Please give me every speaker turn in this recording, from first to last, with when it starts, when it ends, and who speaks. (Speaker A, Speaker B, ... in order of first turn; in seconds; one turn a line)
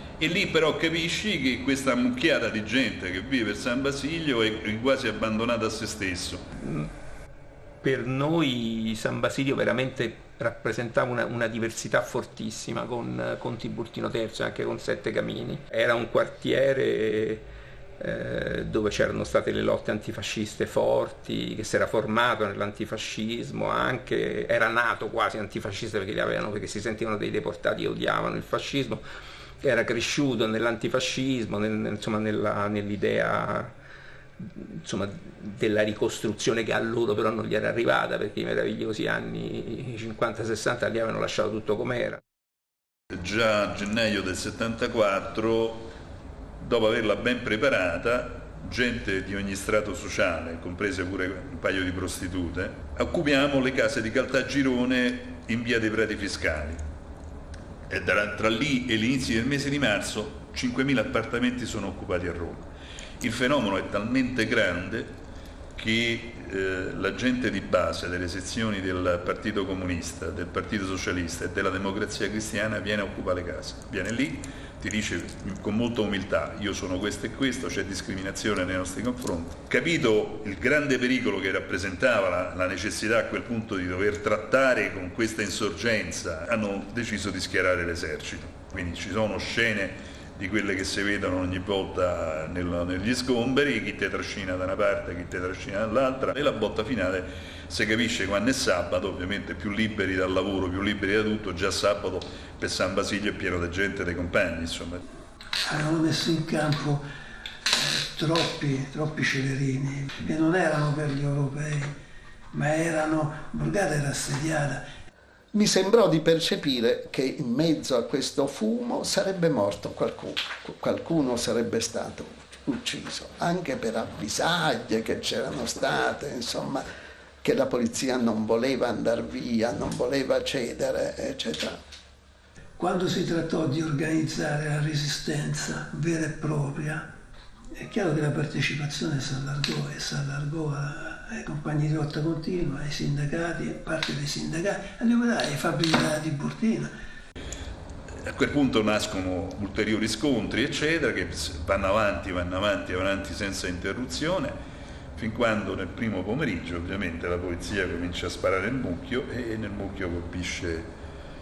Speaker A: 0.2-6.4
Speaker B: 6.6-6.9
Speaker B: 7.8-17.4
Speaker B: 18.0-29.0
Speaker B: 29.6-33.7
Speaker B: 34.4-42.2
Speaker A: 43.1-45.9
Speaker A: 46.6-56.8
Speaker A: 57.9-65.2
Speaker A: 65.8-105.0
Speaker C: 105.7-107.1
Speaker C: 107.7-112.0
Speaker C: 112.5-114.9
Speaker D: 115.5-126.8
Speaker D: 127.4-131.8
Speaker C: 132.8-137.2
Speaker C: 137.8-146.9
Speaker A: 148.3-154.6
Speaker A: 155.2-160.9